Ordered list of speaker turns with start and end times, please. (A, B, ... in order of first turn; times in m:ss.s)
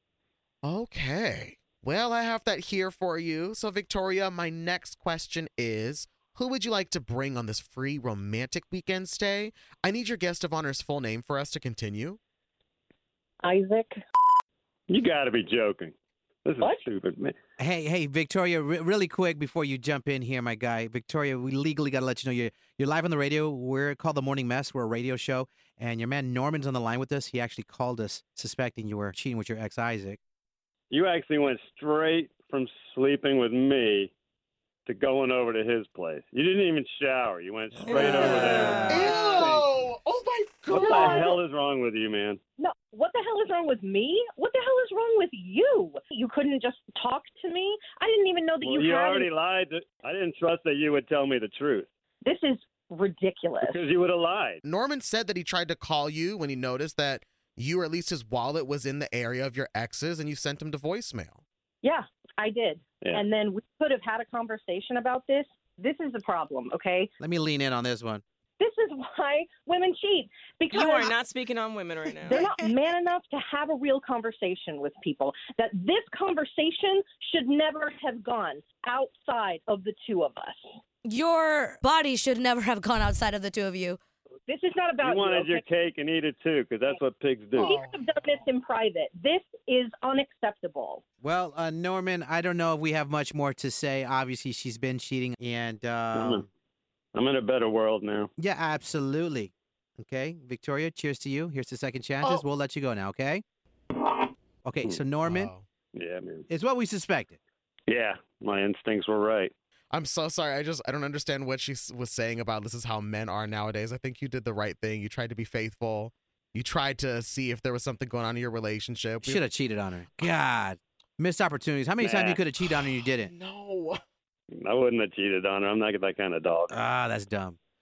0:00.6-0:12.2 A
0:13.4-0:14.0 B
0:14.9-0:15.9 C
0:16.4-0:17.3 C
0:17.6-0:30.2 D
0:30.9-0:34.1 C
0:34.9-0:39.8 C
0:38.0-0:38.8 E
0:38.6-0:38.9 D
0:38.9-0:41.4 A
0:40.7-0:42.4 C
0:40.8-0:41.4 B
0:42.6-0:49.3 B
0:48.6-0:51.9 C
0:52.2-0:53.8 B
0:53.6-0:54.6 C
0:54.6-1:01.4 A
1:01.8-1:07.1 B
1:07.2-1:08.2 D
1:08.6-1:11.2 B
1:10.8-1:12.5 E
1:12.2-1:20.6 B
1:21.1-1:24.0 F
1:24.5-1:25.6 B
1:25.0-1:27.8 C
1:27.6-1:28.3 A
1:27.6-1:31.0 B
1:31.2-1:36.4 D
1:36.1-1:36.4 C
1:37.1-1:38.3 C
1:38.4-1:43.4 D
1:44.6-1:45.5 D
1:45.2-1:45.6 A
1:45.9-1:46.4 C
1:46.5-1:47.4 D
1:47.9-1:49.5 C
1:49.9-1:59.4 A
1:59.2-2:03.3 D
2:02.1-2:04.0 A
2:04.5-2:06.8 C
2:06.7-2:07.6 D